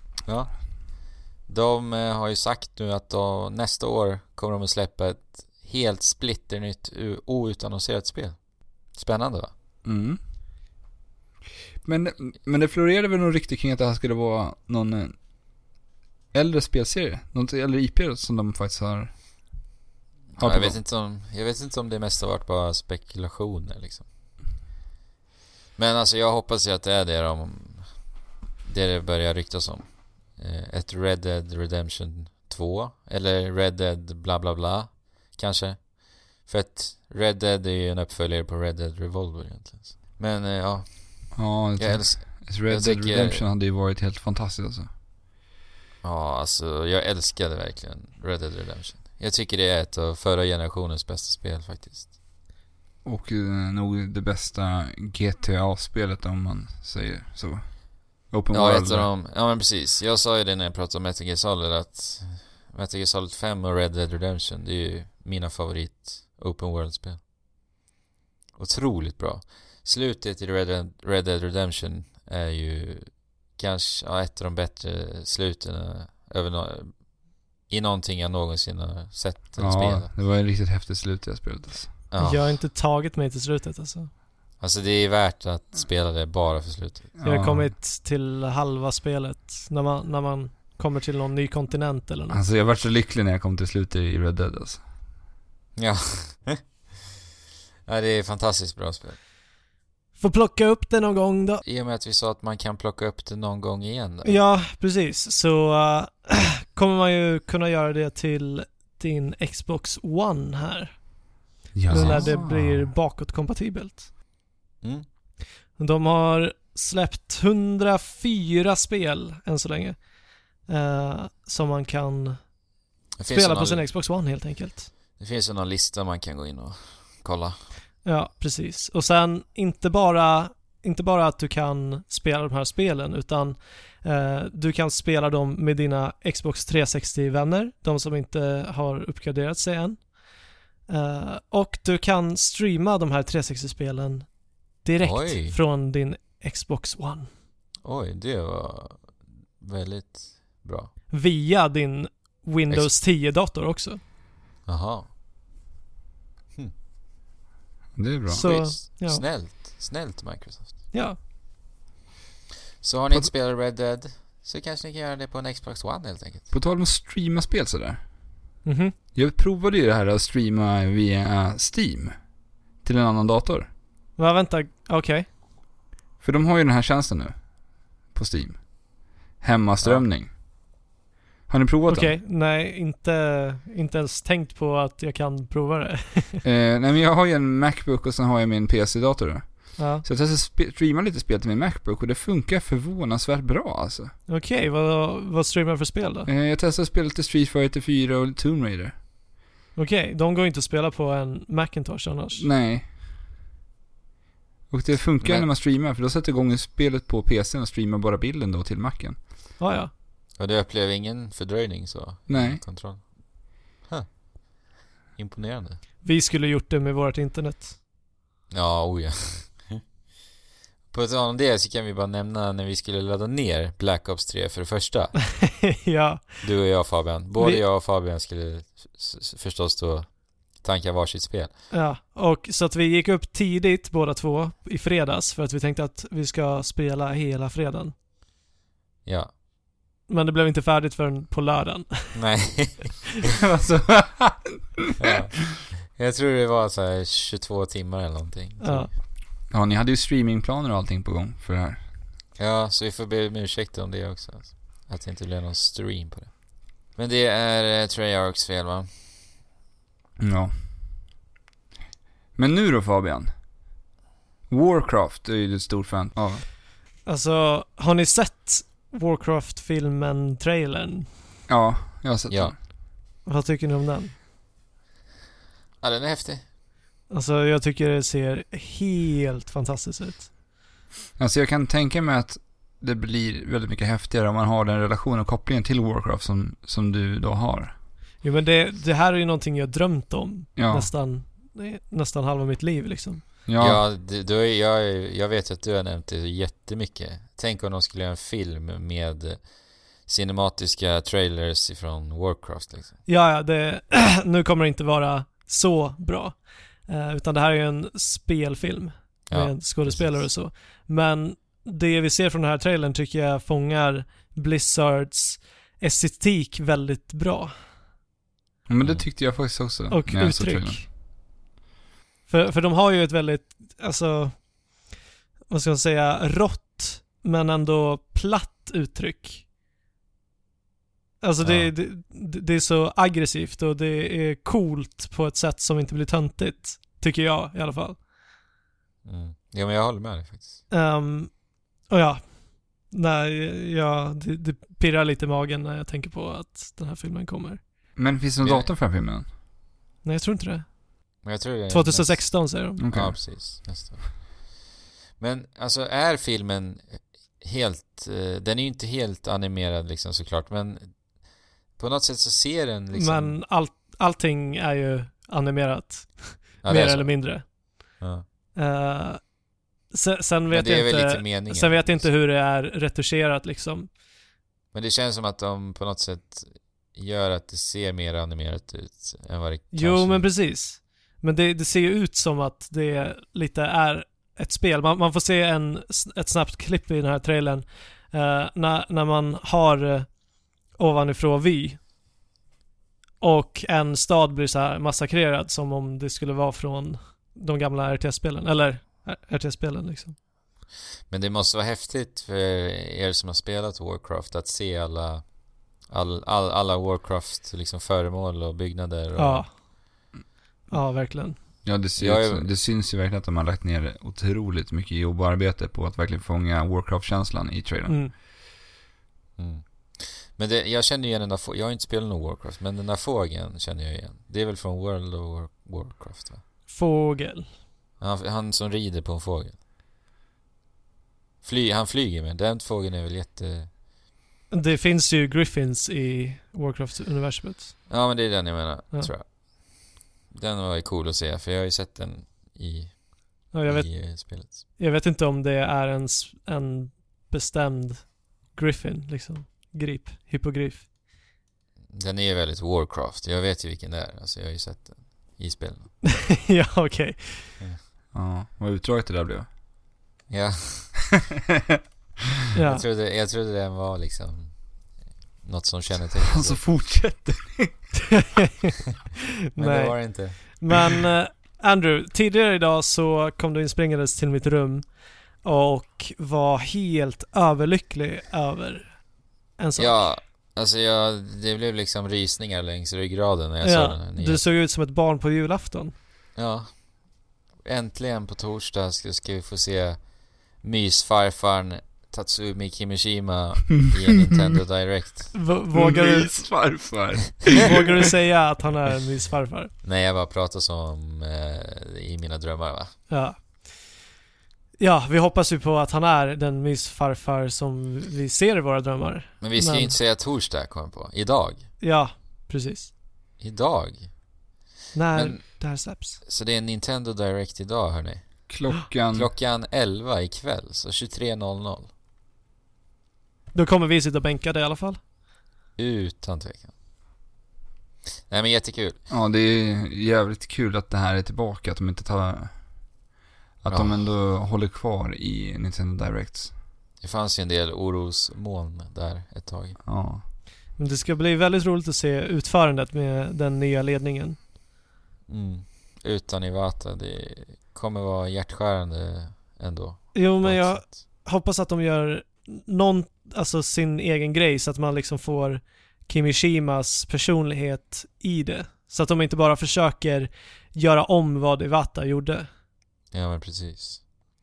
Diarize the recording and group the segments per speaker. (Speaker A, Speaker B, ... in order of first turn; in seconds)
Speaker A: 0.2-8.4, 8.9-9.5, 20.3-24.1, 25.8-27.9, 28.6-43.4, 46.0-52.1, 58.5-67.2, 68.5-77.1, 77.7-80.1, 82.1-82.6, 84.6-87.2, 95.8-96.6, 97.9-99.2, 101.6-104.4, 111.9-112.3, 123.2-123.8, 125.2-127.6, 145.0-145.6, 147.8-150.9, 154.7-155.1, 158.4-160.9, 162.8-166.5, 205.2-205.5, 210.4-213.2, 213.8-214.1, 215.2-215.8, 218.5-219.8, 220.9-225.2, 226.4-231.6, 239.0-239.3, 242.1-243.1, 245.0-248.9, 252.4-256.3, 256.9-258.9, 272.3-272.5, 275.8-276.4, 293.6-303.0, 309.3-310.3, 331.4-331.7, 339.0-340.6, 348.4-348.7, 351.2-354.6, 355.2-361.0, 361.8-363.4, 366.6-367.4, 368.0-368.2, 370.5-372.1, 374.7-380.3, 401.1-405.3, 405.8-409.5, 412.0-412.5, 419.4-426.4, 428.0-429.6, 431.4-433.7, 437.9-444.6, 451.9-456.0, 460.3-461.1, 462.6-464.7, 465.4-466.6, 469.6-470.6, 479.8-484.4, 486.4-486.9, 487.6-495.4, 499.8-502.9, 509.4-511.7, 513.4-514.1, 515.1-515.4, 516.2-518.5, 519.1-521.9, 525.8-526.7, 528.3-529.0, 533.7-534.0, 537.0-539.8, 545.3-551.0, 563.1-564.0
Speaker B: 9.8-10.2, 11.8-15.2, 16.3-19.1, 20.4-20.8, 41.3-44.9, 53.0-59.1, 79.6-81.9, 87.2-87.7, 92.3-94.8, 111.7-112.9, 157.9-158.5, 166.5-168.0, 169.1-172.1, 172.8-173.7, 176.2-177.4, 178.1-178.7, 179.4-180.3, 181.5-182.2, 186.4-194.1, 196.2-198.9, 202.3-202.8, 204.7-209.2, 212.3-212.6, 243.4-245.1, 249.5-251.8, 260.2-260.5, 262.4-263.3, 264.5-266.4, 271.5-272.5, 281.2-287.7, 290.6-290.9, 293.4-293.8, 318.7-320.9, 347.9-349.2, 352.8-353.2, 411.6-418.0, 458.1-459.5, 466.3-467.9, 495.7-497.8, 518.5-519.3, 529.1-532.5, 533.6-536.5, 539.8-540.2
Speaker C: 82.2-84.1, 87.2-92.4, 100.2-101.6, 104.2-111.0, 111.9-114.1, 115.8-120.0, 120.7-122.4, 123.3-124.9, 128.0-140.1, 140.9-144.3, 144.8-147.3, 151.1-154.0, 158.3-159.2, 160.9-161.2, 168.6-168.9, 174.2-175.3, 181.9-186.4, 189.8-190.0, 194.3-196.3, 199.7-202.5, 209.6-209.9, 216.0-217.8, 225.4-226.4, 227.3-227.6, 231.7-237.9, 240.1-242.2, 248.6-248.9, 267.0-271.1, 273.2-274.1, 277.1-280.3, 288.2-293.2, 303.1-317.5, 319.9-320.9, 322.3-324.4, 325.5-329.4, 331.2-338.0, 340.7-341.3, 341.9-347.6, 350.0-350.7, 351.7-352.8, 362.9-367.6, 368.5-369.3, 369.9-373.9, 379.7-390.1, 390.7-391.8, 393.2-400.1, 409.2-409.5, 410.7-411.4, 417.9-418.1, 426.7-427.5, 434.5-437.7, 443.5-450.9, 456.0-457.6, 462.5-462.8, 469.5-479.0, 479.6-480.1, 483.6-485.9, 495.3-496.4, 497.6-499.7, 503.1-503.7, 504.8-509.9, 511.8-512.9, 514.9-516.2, 523.5-525.0, 540.8-544.4, 550.1-562.5